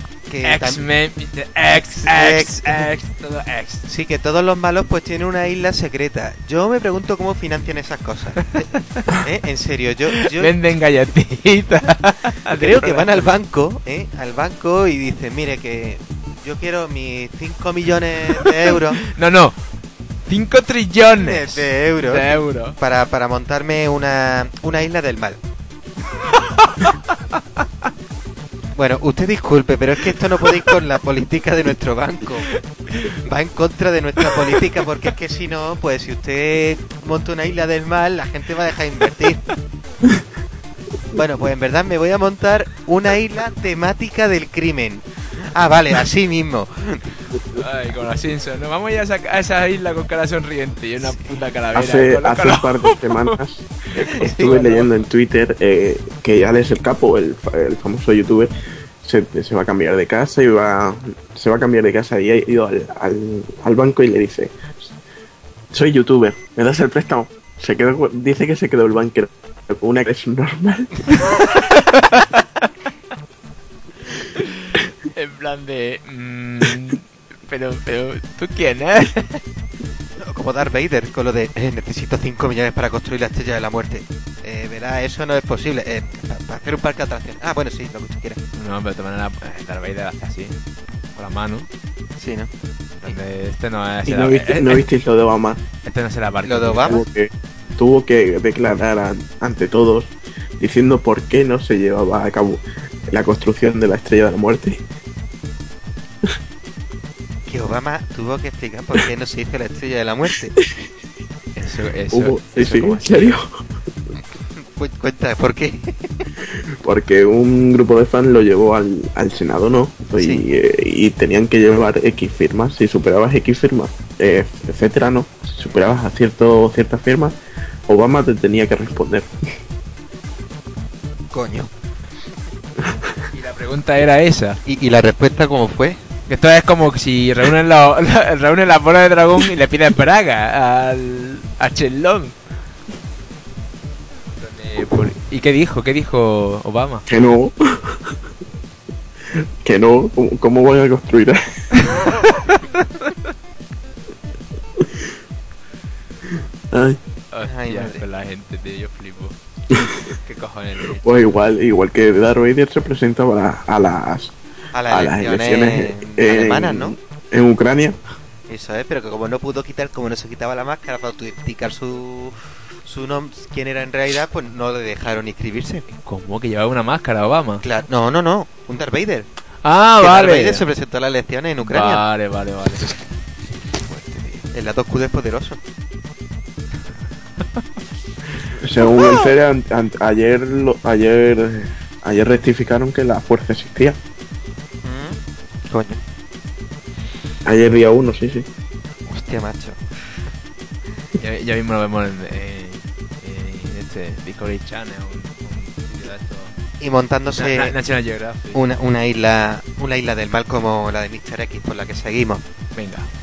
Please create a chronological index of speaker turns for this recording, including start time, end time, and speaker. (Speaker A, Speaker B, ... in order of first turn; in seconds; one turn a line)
Speaker A: 0.3-0.8
Speaker B: 0.4-3.9
Speaker A: 1.9-2.9
Speaker A: 3.9-10.5
Speaker B: 8.5-9.2
Speaker B: 10.1-13.3
Speaker A: 12.5-19.0
Speaker B: 18.4-19.6
Speaker B: 20.3-22.8
Speaker A: 21.1-25.4
Speaker B: 26.3-27.6
Speaker A: 28.7-39.4
Speaker A: 41.1-47.2
Speaker B: 47.5-53.4
Speaker C: 51.7-58.5
Speaker B: 53.9-54.9
Speaker A: 54.0-54.5
Speaker C: 59.0-64.9
Speaker C: 65.7-71.1
Speaker B: 71.2-72.6
Speaker B: 74.2-79.4
Speaker A: 80.2-88.4
Speaker B: 88.5-90.6
Speaker B: 91.2-91.7
Speaker A: 92.2-92.5
Speaker B: 93.0-94.8
Speaker C: 94.0-95.6
Speaker B: 95.8-97.0
Speaker A: 96.4-97.0
Speaker C: 96.8-104.8
Speaker A: 107.5-110.5
Speaker C: 110.6-110.9
Speaker B: 111.5-113.4
Speaker C: 112.1-113.5
Speaker A: 114.5-116.3
Speaker C: 116.8-127.3
Speaker A: 120.2-120.4
Speaker C: 127.9-129.3
Speaker A: 131.3-131.7
Speaker B: 133.3-134.6
Speaker A: 134.7-136.0
Speaker B: 136.3-142.3
Speaker B: 144.4-147.1
Speaker C: 147.1-148.1
Speaker C: 149.6-151.8
Speaker B: 152.3-153.0
Speaker C: 156.7-157.0
Speaker B: 157.3-161.2
Speaker A: 157.4-158.0
Speaker C: 161.0-164.3
Speaker A: 164.7-166.9
Speaker C: 164.9-168.0
Speaker A: 168.5-175.8
Speaker B: 175.9-177.6
Speaker A: 177.6-179.3
Speaker B: 179.6-180.7
Speaker A: 180.0-182.0
Speaker B: 181.6-182.9
Speaker B: 183.8-184.4
Speaker A: 184.5-185.6
Speaker C: 188.6-194.0
Speaker A: 194.8-195.2
Speaker A: 195.7-196.0
Speaker C: 197.4-198.4
Speaker A: 199.1-199.9
Speaker B: 201.2-206.5
Speaker A: 206.8-207.7
Speaker B: 207.3-208.6
Speaker A: 208.5-212.4
Speaker B: 212.7-213.1